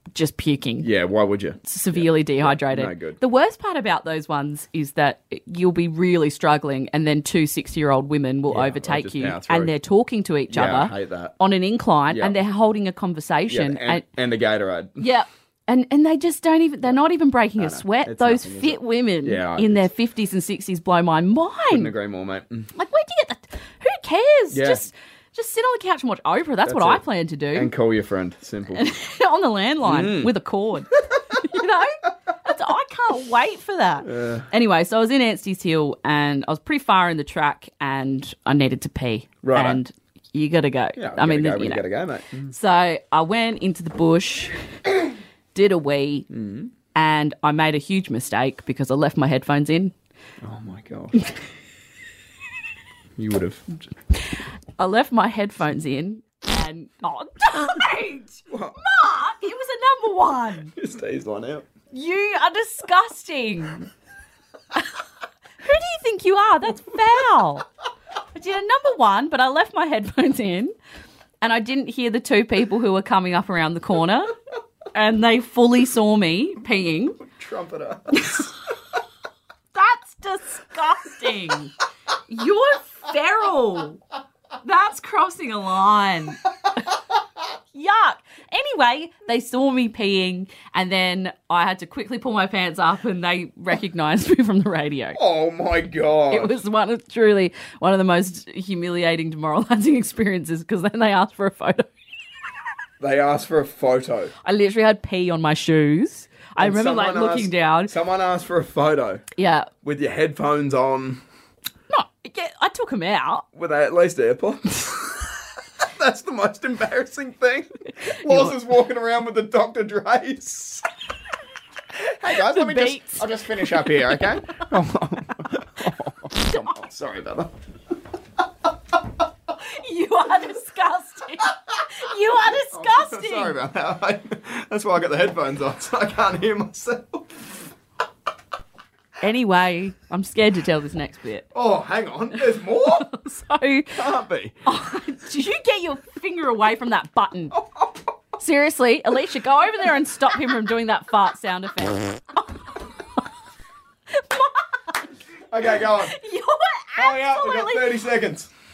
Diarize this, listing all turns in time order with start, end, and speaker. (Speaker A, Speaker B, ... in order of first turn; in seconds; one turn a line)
Speaker A: 0.1-0.9
Speaker B: 0.8-3.2
Speaker A: 1.6-14.1
Speaker B: 8.5-9.7
Speaker B: 10.5-11.3
Speaker B: 12.1-12.4
Speaker B: 13.5-15.0
Speaker A: 15.0-21.9
Speaker B: 17.6-19.9
Speaker B: 21.7-22.7
Speaker A: 22.7-27.7
Speaker B: 24.5-24.9
Speaker B: 26.6-28.9
Speaker A: 28.7-41.9
Speaker B: 29.8-30.3
Speaker B: 34.0-34.5
Speaker B: 39.4-39.8
Speaker B: 41.0-42.5
Speaker A: 42.5-44.5
Speaker A: 45.5-46.3
Speaker B: 46.3-46.7
Speaker A: 46.9-49.9
Speaker B: 50.4-51.3
Speaker B: 53.2-53.9
Speaker A: 54.8-60.7
Speaker B: 58.5-58.8
Speaker B: 60.8-61.7
Speaker A: 61.9-63.9
Speaker A: 65.6-67.7
Speaker A: 68.3-70.7
Speaker A: 71.4-74.3
Speaker A: 74.9-77.2
Speaker B: 77.2-78.5
Speaker A: 78.2-78.5
Speaker A: 79.7-81.7
Speaker A: 82.3-84.0
Speaker A: 84.6-86.4
Speaker A: 87.7-95.2
Speaker B: 95.1-96.6
Speaker A: 96.3-101.9
Speaker B: 103.0-104.3
Speaker A: 104.4-107.9
Speaker B: 106.6-109.2
Speaker A: 109.4-109.7
Speaker B: 109.8-111.2
Speaker A: 111.9-113.5
Speaker B: 113.5-120.9
Speaker A: 118.2-118.6
Speaker B: 122.0-127.5
Speaker A: 122.3-124.3
Speaker A: 126.4-126.8
Speaker A: 129.7-133.6
Speaker B: 132.6-137.4
Speaker A: 139.2-141.5
Speaker B: 141.5-143.1
Speaker A: 142.9-144.1
Speaker B: 143.9-144.6
Speaker A: 144.7-147.6
Speaker B: 147.6-148.0
Speaker A: 148.4-152.6
Speaker A: 154.1-154.6
Speaker B: 155.5-156.2
Speaker A: 156.0-158.0
Speaker B: 157.0-158.5